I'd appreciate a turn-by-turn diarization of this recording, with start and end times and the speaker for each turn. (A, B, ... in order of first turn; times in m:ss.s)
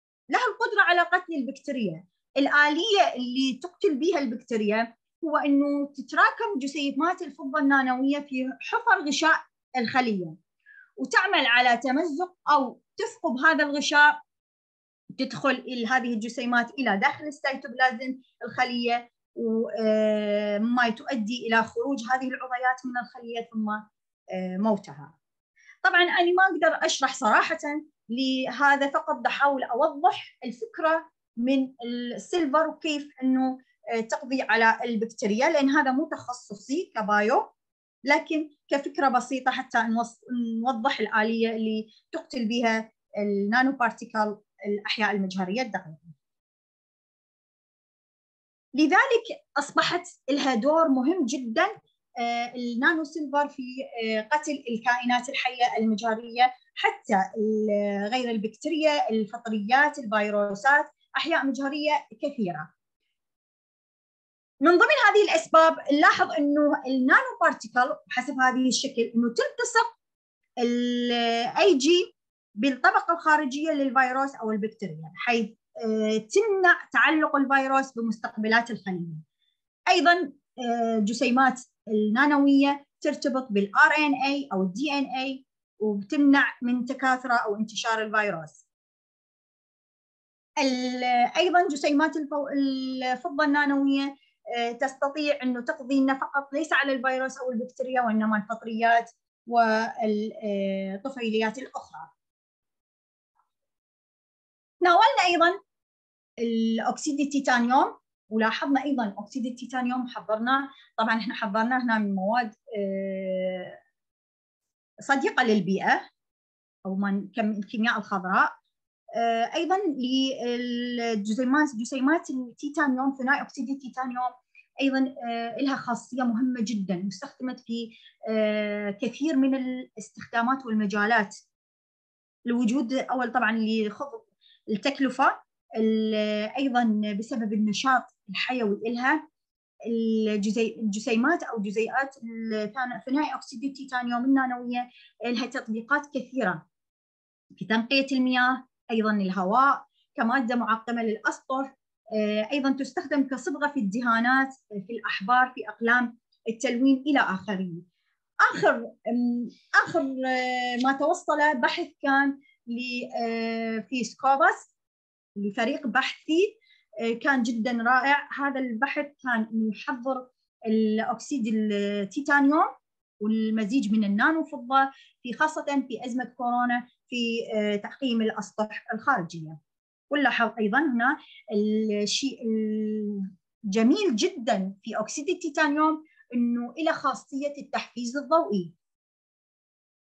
0:00.3-0:10.4 A
0:11.0-0:14.2 A
0:15.2-0:25.1 A
0:25.8-0:37.5 A
0:38.1-0:46.1 A
0:48.8-1:02.7 A
1:04.6-1:09.9 A
1:10.6-1:19.2 A
1:19.9-1:28.6 A
1:30.6-1:42.1 A
1:44.8-1:45.6 A
1:46.4-1:53.8 A
1:55.0-1:56.0 A
1:56.8-1:58.5 A
1:59.2-2:11.4 A
2:12.5-2:19.2 A
2:19.9-2:26.6 A
2:27.6-2:37.8 A
2:38.4-2:44.7 A
2:45.4-2:59.6 A
3:00.1-3:08.7 A